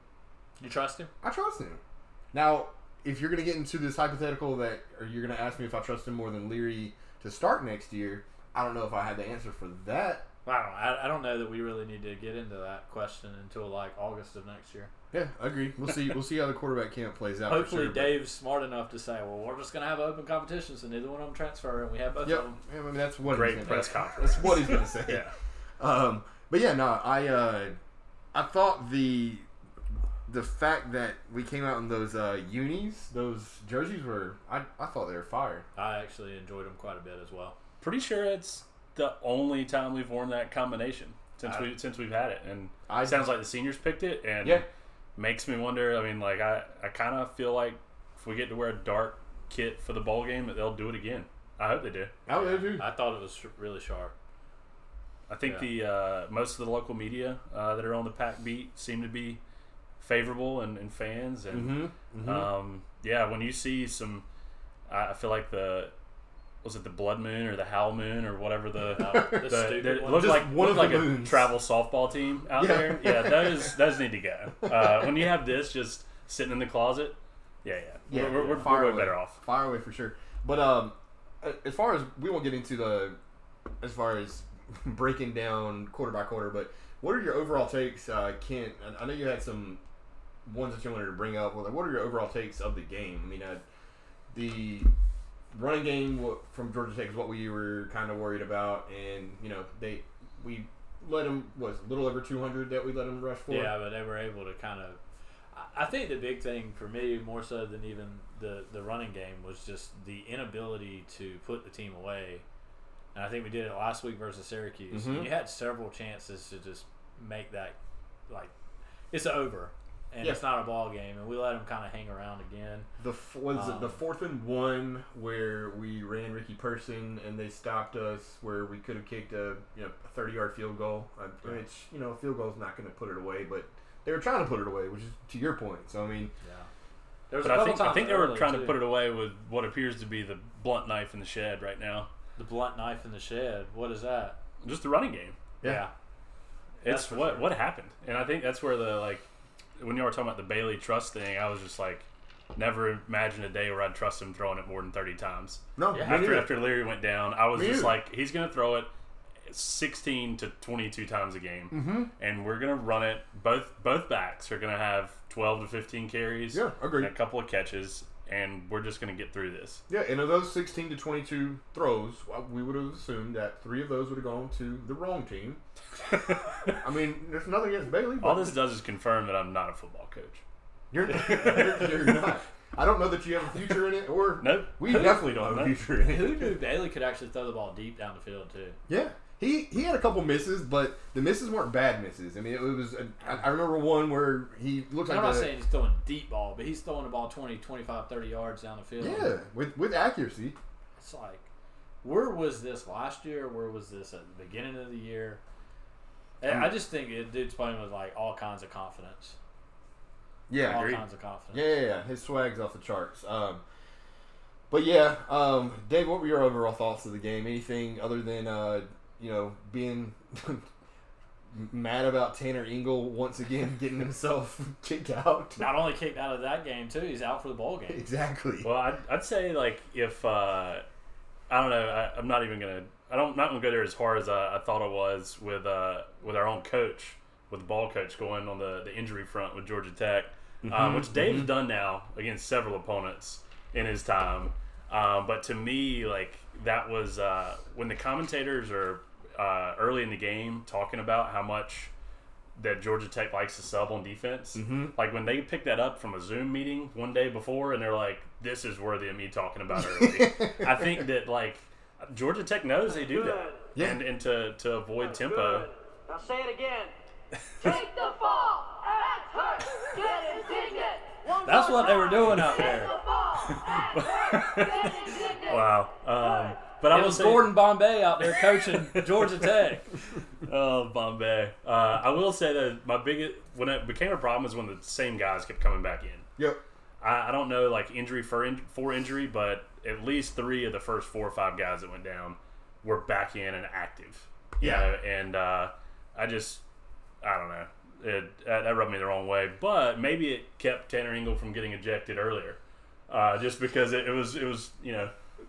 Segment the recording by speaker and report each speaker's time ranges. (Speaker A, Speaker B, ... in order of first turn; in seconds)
Speaker A: 0.6-1.1, 10.4-14.9, 17.5-22.6, 35.8-37.5, 52.3-54.1, 55.4-55.7, 69.0-70.4, 103.5-105.0, 105.5-112.4, 113.1-117.8, 118.3-118.5, 119.1-122.9, 123.5-124.0, 136.4-136.7, 137.3-138.8, 142.4-144.4, 145.6-145.9, 146.8-147.5, 155.9-156.3, 186.0-188.8, 195.1-199.4, 201.0-201.5, 202.0-205.4, 206.4-209.4, 210.7-211.7, 225.6-228.0, 271.4-272.9, 276.9-279.9
Speaker B: 1.2-1.8, 2.3-10.3, 15.1-18.2, 22.2-25.3, 25.8-27.8, 28.3-29.5, 30.3-35.6, 42.9-43.3, 52.3-52.9, 61.5-62.5, 68.9-69.4, 70.0-71.5, 72.5-73.8, 74.6-75.3, 78.1-83.2, 83.8-89.8, 90.4-93.6, 94.3-94.9, 95.5-103.8, 114.9-115.3, 123.0-136.3, 155.8-156.7, 157.5-158.0, 161.7-162.1, 166.5-167.1, 169.9-175.6, 176.8-178.6, 180.9-186.5, 188.9-195.5, 199.0-200.6, 206.4-206.8, 210.5-211.0, 211.5-213.6, 214.7-220.7, 221.5-225.8, 227.9-228.7, 240.6-241.5, 254.5-254.9, 259.7-260.9, 263.7-264.1, 286.4-286.6, 294.6-294.9
Speaker C: 23.2-25.3, 37.8-44.6, 45.1-52.1, 55.3-59.4, 60.0-64.2, 64.9-65.9, 66.6-79.4, 137.4-142.1, 144.6-145.4, 146.8-149.3, 149.8-158.9, 159.5-169.8, 176.1-176.8, 178.2-180.4, 181.2-181.9, 184.4-185.7, 210.7-211.0, 228.6-230.8, 231.5-251.9, 252.6-265.7, 273.5-279.4, 280.4-286.3, 287.0-296.6, 297.2-305.1
Speaker D: 267.6-271.6, 272.7-273.6, 274.8-275.7